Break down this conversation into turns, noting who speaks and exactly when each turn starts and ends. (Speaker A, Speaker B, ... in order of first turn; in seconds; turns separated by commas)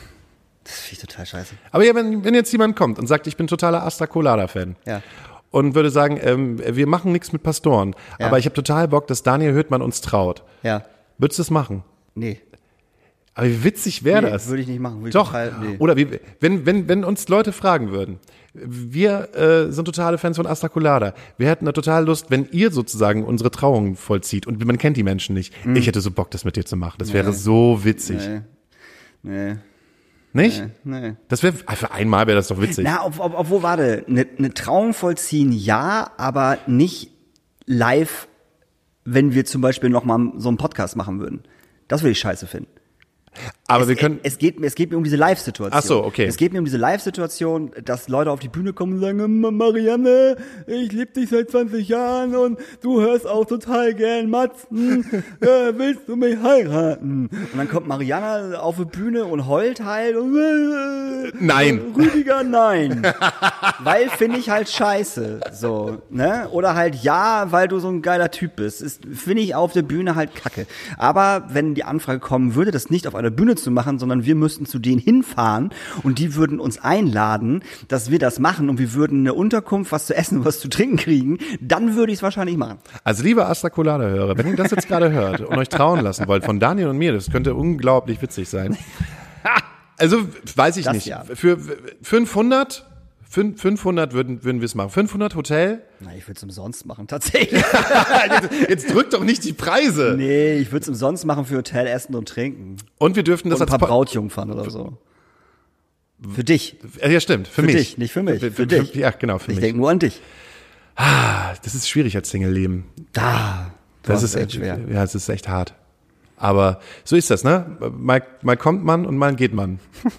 Speaker A: 0.6-1.6, Speaker B: 1.7-4.8, Speaker B: 5.5-10.5, Speaker B: 11.2-11.8, Speaker A: 12.1-12.4, Speaker B: 13.3-14.5, Speaker A: 14.1-15.8, Speaker B: 15.1-28.3, Speaker A: 25.6-25.9, Speaker A: 27.0-27.4, Speaker A: 28.0-28.4, Speaker A: 29.2-29.6, Speaker B: 30.3-30.6, Speaker A: 30.4-31.2, Speaker B: 31.3-32.9, Speaker A: 32.7-37.1, Speaker A: 37.7-38.3, Speaker A: 39.0-42.7, Speaker B: 43.7-44.2, Speaker A: 43.8-63.2, Speaker B: 45.7-46.4, Speaker B: 61.3-62.1, Speaker B: 63.0-63.7, Speaker A: 63.8-82.8, Speaker B: 83.0-88.8, Speaker B: 90.0-95.8, Speaker A: 90.8-91.3, Speaker A: 96.0-98.7, Speaker B: 97.5-100.2, Speaker A: 100.0-102.8, Speaker B: 103.0-104.0, Speaker A: 103.5-105.0, Speaker B: 106.2-109.7, Speaker A: 106.3-106.8, Speaker A: 107.6-108.9, Speaker A: 109.5-110.2, Speaker B: 111.0-112.9, Speaker A: 113.1-114.8, Speaker B: 114.0-115.7, Speaker B: 116.4-119.8